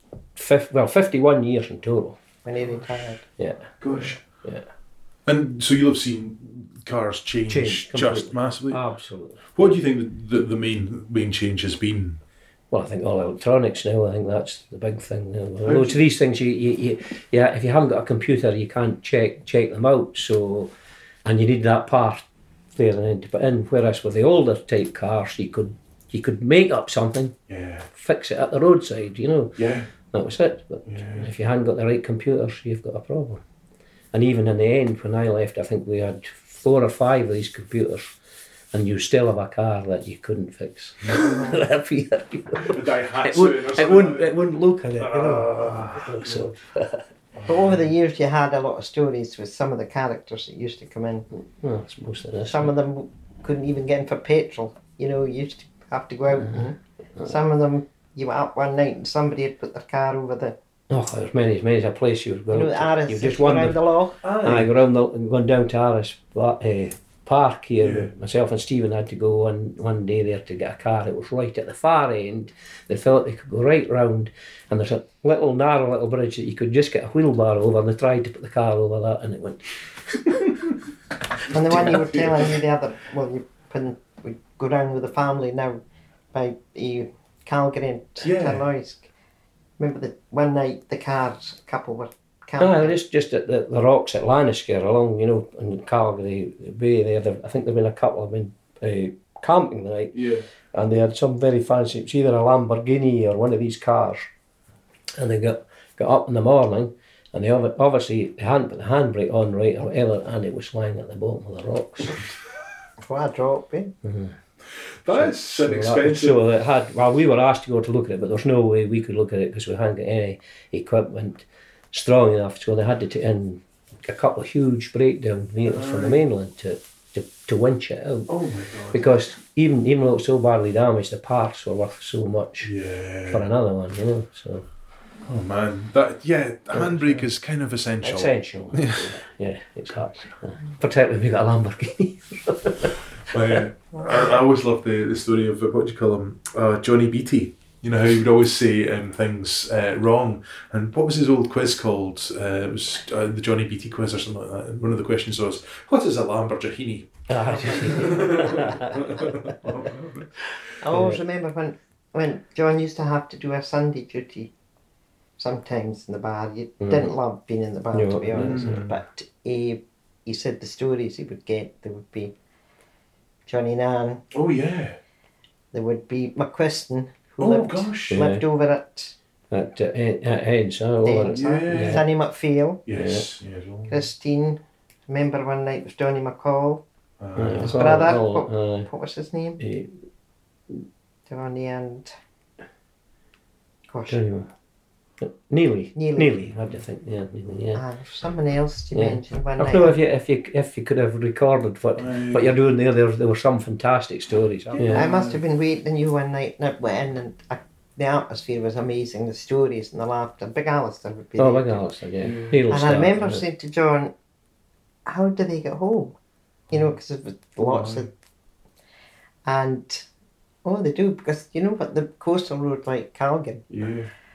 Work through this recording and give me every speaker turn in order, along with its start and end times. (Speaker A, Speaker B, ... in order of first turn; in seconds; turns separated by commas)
Speaker A: 0.3-2.2, Speaker B: 2.5-3.2, Speaker A: 3.4-3.7, Speaker C: 3.8-4.2, Speaker C: 5.3-8.8, Speaker A: 7.5-9.8, Speaker C: 9.6-12.2, Speaker A: 12.7-20.7, Speaker C: 15.7-16.0, Speaker A: 21.2-22.2, Speaker A: 22.8-27.4, Speaker C: 27.5-27.9, Speaker A: 27.9-29.6, Speaker C: 29.6-29.9, Speaker A: 30.1-33.4, Speaker C: 30.9-31.3, Speaker A: 34.1-38.1, Speaker A: 38.7-47.0, Speaker B: 41.2-41.6, Speaker C: 42.6-44.4, Speaker C: 45.0-46.5, Speaker C: 47.4-47.9, Speaker B: 47.5-51.3, Speaker A: 51.4-52.7, Speaker B: 52.5-60.5, Speaker A: 60.9-63.8, Speaker B: 62.5-64.2, Speaker C: 64.2-64.7, Speaker A: 64.4-80.4, Speaker C: 67.8-68.1, Speaker B: 81.5-85.8, Speaker C: 81.7-82.5, Speaker B: 86.3-89.1, Speaker C: 88.2-88.7, Speaker B: 89.8-93.0, Speaker A: 92.6-104.3, Speaker C: 100.1-100.5, Speaker A: 105.2-112.2, Speaker B: 113.0-113.9, Speaker A: 114.0-114.3, Speaker C: 115.0-116.4, Speaker A: 115.1-128.3, Speaker C: 125.7-126.2, Speaker C: 128.3-129.2, Speaker A: 128.9-132.7, Speaker C: 132.6-133.5, Speaker A: 133.3-134.7, Speaker C: 135.2-139.1, Speaker A: 136.7-137.2, Speaker A: 138.0-143.6, Speaker C: 143.3-160.4, Speaker A: 157.3-159.5, Speaker B: 157.6-158.1, Speaker B: 160.8-164.5, Speaker A: 160.9-161.2, Speaker B: 165.4-172.3, Speaker A: 166.8-167.1, Speaker A: 167.9-168.8, Speaker C: 168.4-169.0, Speaker B: 173.5-174.2, Speaker C: 174.3-175.0, Speaker B: 175.7-179.2, Speaker C: 177.4-178.2, Speaker A: 178.1-178.4, Speaker A: 179.5-182.0, Speaker B: 181.0-182.8, Speaker C: 181.3-182.1, Speaker C: 182.9-184.0, Speaker A: 182.9-183.3, Speaker B: 183.9-186.8, Speaker C: 187.2-187.8, Speaker A: 187.4-188.9, Speaker B: 187.4-189.6, Speaker A: 189.6-190.0, Speaker B: 191.3-192.1, Speaker B: 193.9-194.2, Speaker A: 194.1-194.5, Speaker A: 195.2-197.8, Speaker B: 195.9-196.4, Speaker B: 197.8-200.0, Speaker A: 198.9-205.1, Speaker C: 202.0-202.6, Speaker C: 204.7-205.4, Speaker B: 204.8-211.8, Speaker A: 211.4-213.4, Speaker C: 212.2-212.6, Speaker B: 212.7-214.1, Speaker B: 215.1-216.2, Speaker B: 216.7-218.1, Speaker C: 217.6-218.1, Speaker B: 219.4-220.1, Speaker B: 220.6-223.7, Speaker C: 223.7-224.1